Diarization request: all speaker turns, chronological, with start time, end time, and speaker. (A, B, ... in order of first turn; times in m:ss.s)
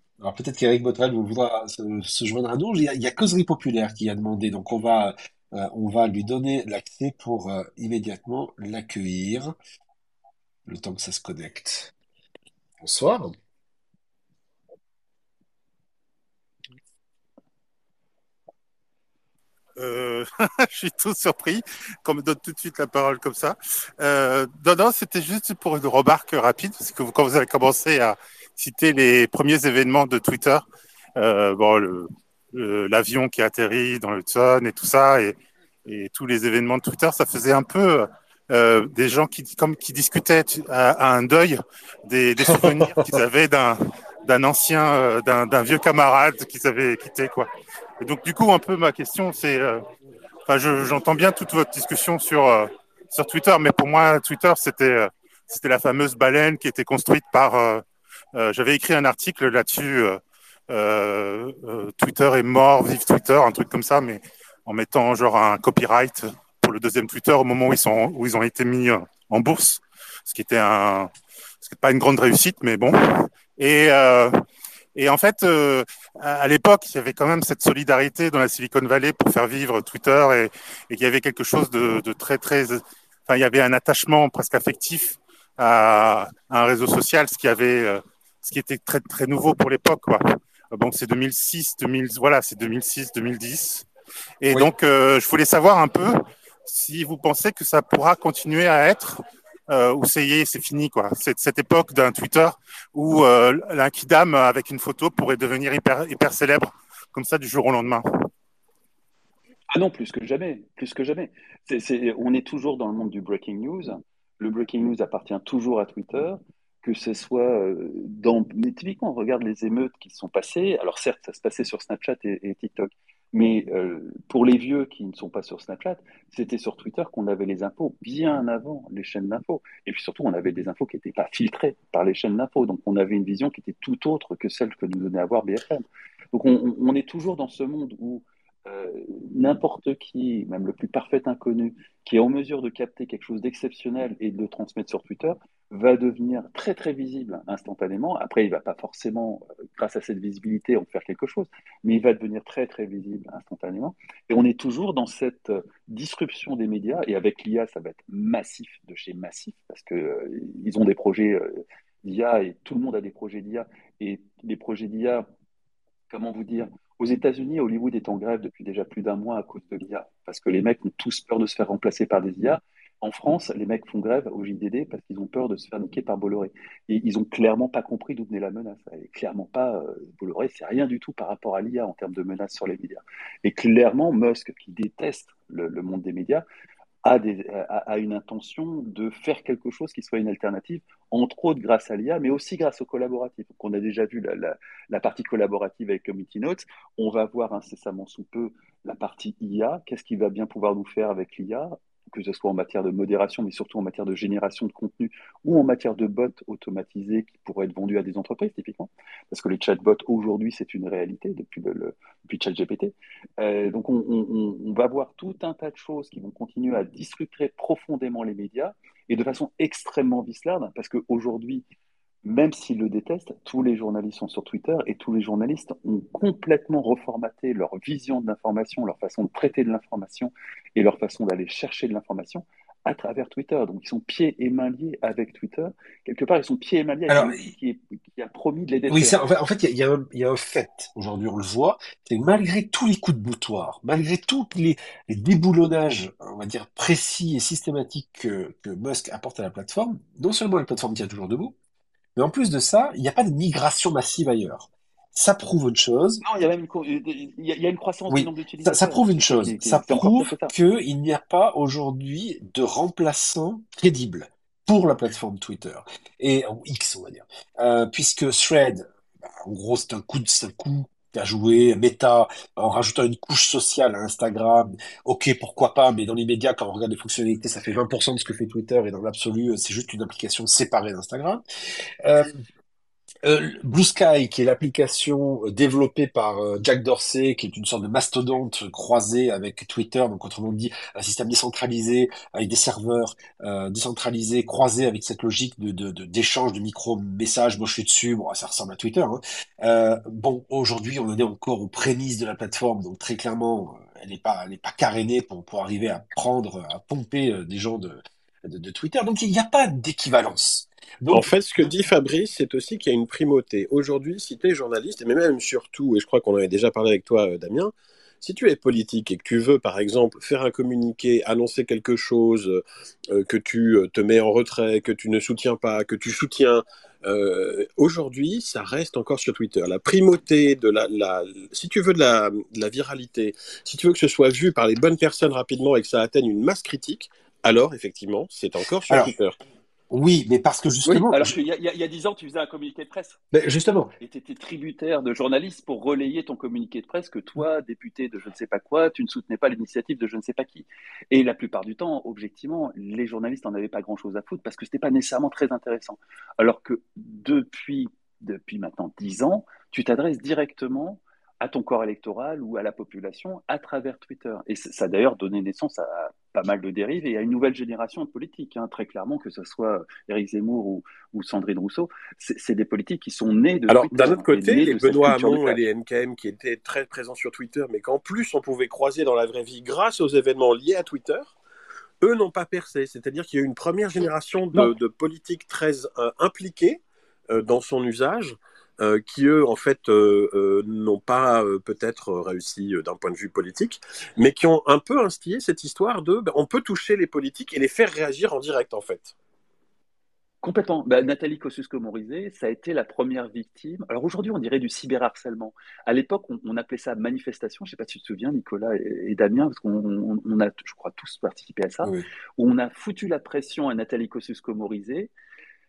0:00.2-0:09.5 A
0:10.7-0:11.9 A
0:12.8-0:13.3 A
0:19.8-0:30.7 B
0:31.2-0:47.5 B
0:42.5-0:43.0 A
0:48.0-0:49.9 B
0:50.5-1:11.1 B
1:11.6-1:14.4 B
1:15.0-1:33.9 B
1:34.4-1:48.3 B
1:49.7-2:45.2 C
2:46.1-3:06.4 C
3:07.0-3:41.6 C
3:42.2-3:59.2 C
3:57.1-3:57.5 A
3:58.9-4:11.6 A
4:12.2-4:16.2 A
4:16.2-4:20.5 C
4:18.1-4:41.4 A
4:42.0-4:42.4 A
4:43.2-5:11.3 A
5:11.1-5:22.6 D
5:23.1-5:39.4 D
5:39.9-5:41.3 A
5:40.9-5:43.2 C
5:43.3-5:43.9 A
5:44.0-6:15.6 C
6:13.7-6:21.4 D
6:22.0-6:39.2 D
6:40.4-6:55.1 C